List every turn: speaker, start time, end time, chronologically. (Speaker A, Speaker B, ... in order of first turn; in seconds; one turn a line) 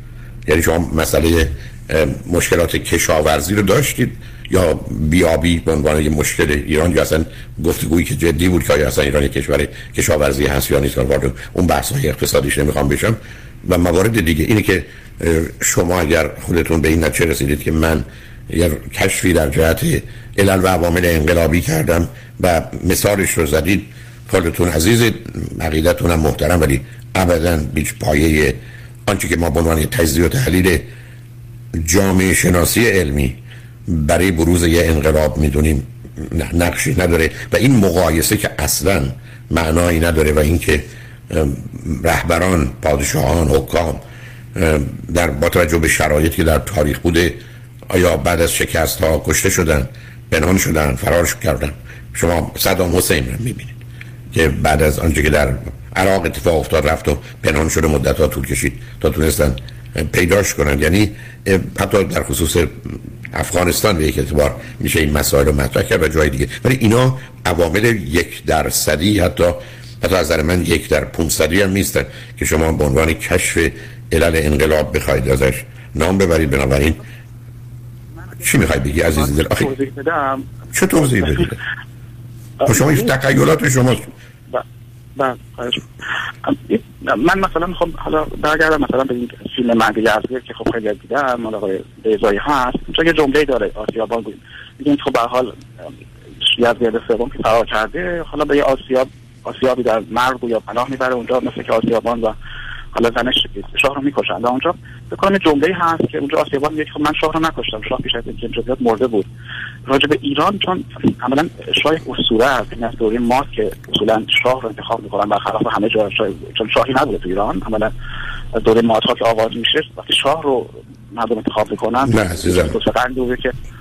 Speaker A: 0.5-30.9
Speaker A: 31.7-44.0
Speaker A: 44.5-47.4
Speaker A: 47.9-53.8
Speaker A: 54.3-77.0
Speaker A: 78.4-79.7
Speaker B: 79.2-81.4
Speaker A: 80.7-81.6
Speaker B: 82.6-83.1
Speaker A: 82.7-84.1
Speaker B: 85.2-85.8
Speaker B: 86.4-95.5
Speaker B: 96.5-102.3
Speaker B: 102.9-109.3
Speaker B: 109.8-117.9
Speaker B: 118.5-123.5
Speaker A: 122.1-122.8